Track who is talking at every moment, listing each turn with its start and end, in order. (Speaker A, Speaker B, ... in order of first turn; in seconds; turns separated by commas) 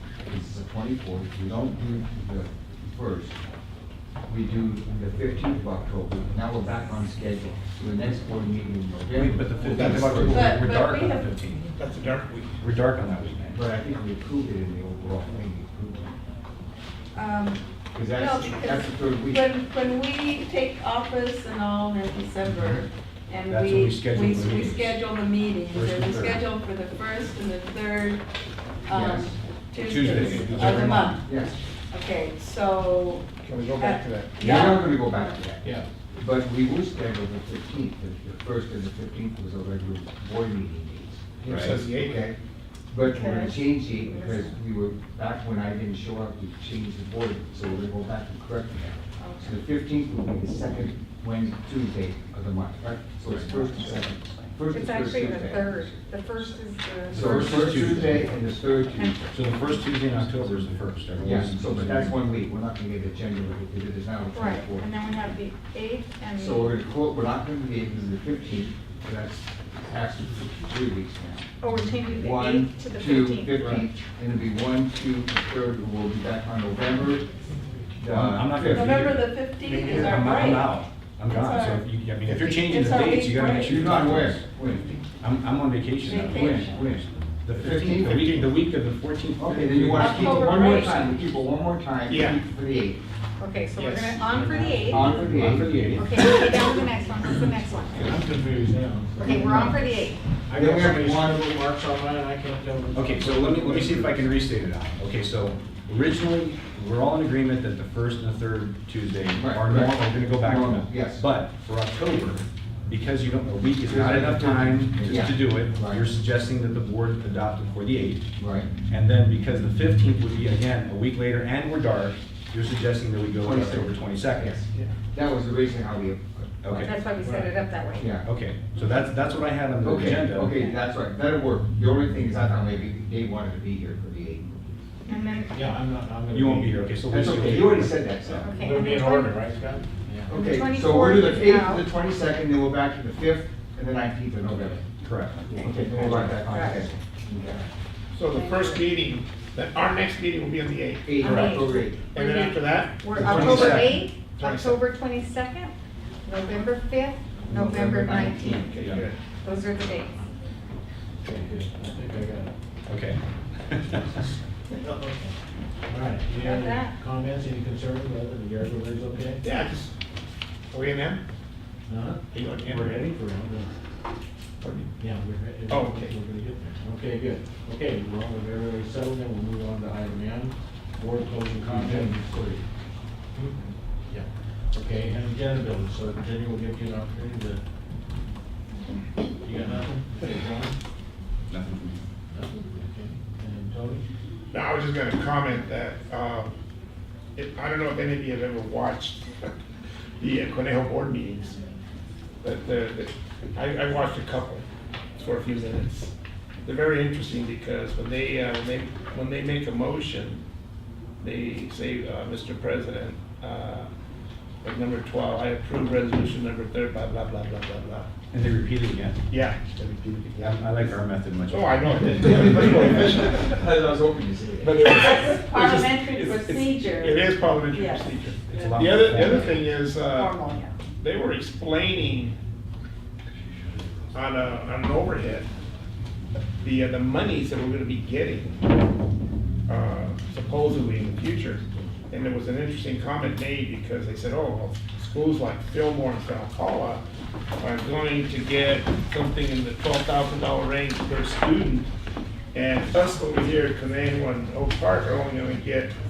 Speaker A: 0.3-3.4, Speaker A: 4.3-10.6, Speaker B: 9.2-11.6, Speaker C: 9.8-10.1, Speaker D: 10.2-11.4, Speaker C: 11.7-12.6, Speaker B: 12.6-13.6, Speaker A: 13.5-16.1, Speaker D: 17.1-28.2, Speaker A: 17.9-19.5, Speaker B: 23.5-25.0, Speaker B: 25.7-26.5, Speaker D: 28.9-31.3, Speaker A: 28.9-29.3, Speaker B: 29.8-31.2, Speaker E: 30.0-30.7, Speaker A: 30.6-31.6, Speaker D: 31.9-35.4, Speaker C: 33.4-34.5, Speaker A: 34.4-42.4, Speaker C: 41.4-42.2, Speaker B: 41.5-41.7, Speaker A: 42.9-55.9, Speaker F: 43.0-44.6, Speaker F: 49.2-49.6, Speaker F: 53.4-58.3, Speaker A: 57.1-59.4, Speaker B: 57.1-58.3, Speaker F: 58.9-59.8, Speaker B: 59.3-62.1, Speaker A: 61.2-64.9, Speaker F: 64.3-66.8, Speaker A: 66.4-71.5, Speaker F: 71.6-73.9, Speaker A: 72.1-77.3, Speaker A: 78.0-79.0, Speaker B: 78.1-79.4, Speaker D: 78.7-81.8, Speaker C: 79.6-80.3, Speaker B: 80.0-84.4, Speaker C: 82.2-82.6, Speaker D: 82.5-83.9, Speaker A: 83.7-85.0, Speaker B: 85.2-86.7, Speaker D: 86.0-86.9, Speaker A: 86.3-88.5, Speaker B: 87.5-90.5, Speaker A: 89.4-93.0, Speaker D: 90.0-91.0, Speaker F: 90.0-91.0, Speaker C: 92.1-92.4, Speaker F: 93.4-95.3, Speaker E: 93.8-96.1, Speaker A: 94.8-96.0, Speaker B: 95.4-96.0, Speaker F: 95.9-98.2, Speaker E: 98.0-99.7, Speaker F: 99.2-100.2, Speaker A: 99.2-99.8, Speaker E: 100.5-104.2, Speaker A: 100.5-101.4, Speaker B: 102.9-124.5, Speaker A: 109.3-111.2, Speaker A: 113.8-116.0, Speaker A: 118.4-118.7, Speaker A: 123.4-126.9, Speaker B: 126.6-126.9, Speaker F: 126.7-128.1, Speaker E: 127.2-127.5, Speaker A: 128.0-128.2, Speaker B: 128.2-130.6, Speaker A: 129.8-134.6, Speaker F: 135.1-135.5, Speaker E: 135.5-136.9, Speaker B: 136.3-138.5, Speaker A: 137.1-138.5, Speaker F: 138.4-139.3, Speaker E: 138.6-140.3, Speaker A: 140.3-144.8, Speaker F: 140.3-141.9, Speaker E: 144.5-144.8, Speaker B: 145.0-145.6, Speaker A: 145.5-147.6, Speaker E: 145.7-146.5, Speaker F: 146.4-147.7, Speaker C: 148.1-151.5, Speaker D: 148.3-148.9, Speaker A: 151.1-152.1, Speaker F: 151.2-155.7, Speaker C: 152.1-154.8, Speaker B: 153.1-154.0, Speaker A: 153.2-153.6, Speaker F: 156.2-158.7, Speaker A: 157.6-158.6, Speaker C: 158.1-159.2, Speaker B: 158.7-159.1, Speaker F: 159.4-160.2, Speaker E: 161.2-162.5, Speaker B: 162.9-164.1, Speaker E: 164.8-165.3, Speaker E: 165.9-169.4, Speaker F: 166.4-166.9, Speaker C: 169.4-169.9, Speaker C: 170.7-171.2, Speaker E: 171.9-173.7, Speaker C: 172.3-172.9, Speaker C: 174.6-174.9, Speaker E: 175.0-182.2, Speaker C: 175.7-176.1, Speaker A: 181.6-182.6, Speaker E: 184.1-187.6, Speaker E: 189.4-190.8, Speaker B: 191.5-192.0, Speaker E: 192.3-194.0, Speaker C: 194.5-196.5, Speaker C: 197.4-199.5, Speaker C: 200.2-201.6, Speaker C: 202.4-204.7, Speaker C: 205.2-206.1, Speaker C: 206.6-210.4, Speaker C: 211.2-213.9, Speaker C: 214.6-218.1, Speaker B: 218.3-219.2, Speaker C: 219.3-223.7, Speaker B: 220.4-222.9, Speaker A: 222.3-222.8, Speaker A: 223.3-224.9, Speaker C: 224.6-230.4, Speaker D: 224.8-229.1, Speaker B: 228.5-229.7, Speaker F: 230.1-230.7, Speaker C: 231.0-232.4, Speaker C: 234.1-235.5, Speaker C: 236.6-238.5, Speaker C: 239.7-247.0, Speaker C: 247.6-251.9, Speaker C: 252.5-255.9